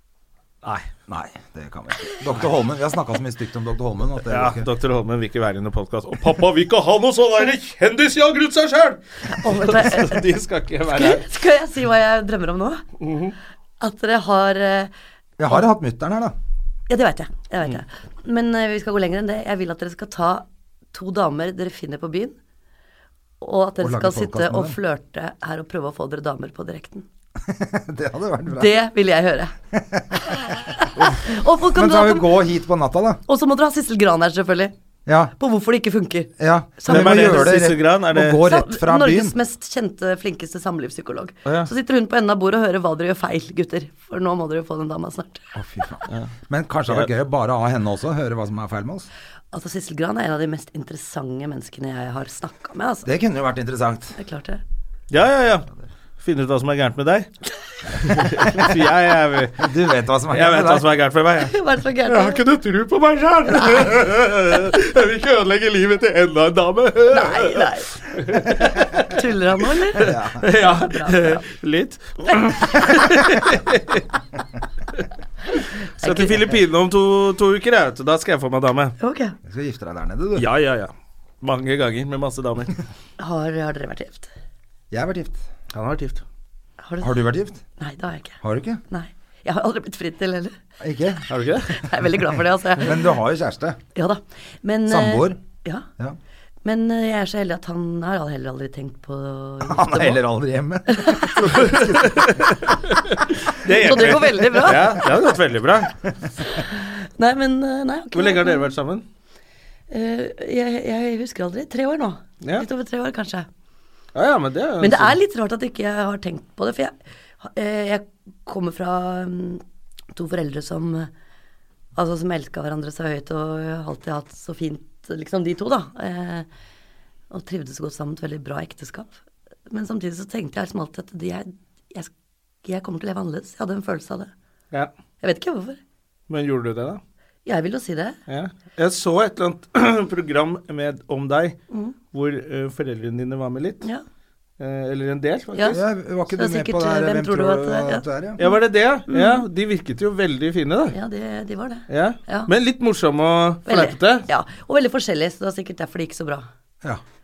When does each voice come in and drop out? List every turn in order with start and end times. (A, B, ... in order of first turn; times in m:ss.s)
0:00.6-0:00.9 A
0:01.1-0:04.7 B
0:04.3-0:11.3 A
0:09.3-0:10.3 C
0:10.9-0:12.8 C
0:13.0-0:13.4 A
0:13.8-0:14.9 C
0:15.4-0:16.4 B
0:16.9-0:22.4 C
0:23.4-0:27.1 C
0:23.8-0:24.8 B
0:27.4-0:28.8 B
0:28.5-0:29.5 C
0:29.7-0:30.2 B
0:30.3-0:32.4 C
0:31.0-0:33.2 B
0:33.3-0:34.7 C
0:35.1-0:35.3 B
0:35.4-0:37.6 C
0:36.4-0:39.4 B
0:36.9-0:38.4 A
0:38.4-0:45.6 C
0:45.6-0:49.1 B
0:49.5-0:53.1 C
0:53.0-0:54.2 B
0:54.2-0:54.6 C
0:55.1-0:55.7 A
0:56.2-0:57.3 A
0:57.9-0:59.7 A
0:59.6-1:00.9 B
1:00.3-1:01.5 A
1:01.4-1:02.4 C
1:02.0-1:09.2 A
1:07.1-1:11.4 C
1:10.0-1:14.0 A
1:10.0-1:10.5 B
1:16.0-1:16.4 C
1:16.0-1:19.0 A
1:19.0-1:19.4 C
1:19.5-1:20.5 B
1:20.4-1:20.9 A
1:21.4-1:22.7 A
1:23.2-1:24.3 C
1:24.9-1:25.5 B
1:25.7-1:26.2 A
1:26.8-1:27.2 C
1:27.0-1:27.6 B
1:27.8-1:28.4 C
1:28.4-1:28.8 B
1:28.9-1:30.6 C
1:30.8-1:31.3 B
1:31.3-1:31.7 A
1:31.7-1:33.0 C
1:32.8-1:33.8 B
1:34.0-1:35.9 C
1:34.9-1:35.4 B
1:36.6-1:40.2 C
1:39.6-1:42.5 B
1:40.9-1:41.7 C
1:41.4-1:46.0 A
1:43.6-1:45.1 C
1:46.4-1:48.7 C
1:48.1-1:49.0 A
1:49.9-1:53.5 C
1:54.2-1:55.2 A
1:54.8-2:01.1 C
2:02.0-2:06.5 C
2:07.3-2:12.1 C
2:12.6-2:14.3 C
2:15.2-2:15.8 C
2:16.3-2:17.0 A
2:17.5-2:18.2 C
2:18.3-2:21.6 A
2:22.1-2:23.8 A
2:24.6-2:25.8 A
2:25.7-2:28.4 B
2:26.3-2:28.6 C
2:28.4-2:31.0 A
2:29.1-2:29.4 C
2:30.9-2:32.5 C
2:31.9-2:34.3 A
2:33.7-2:36.5 C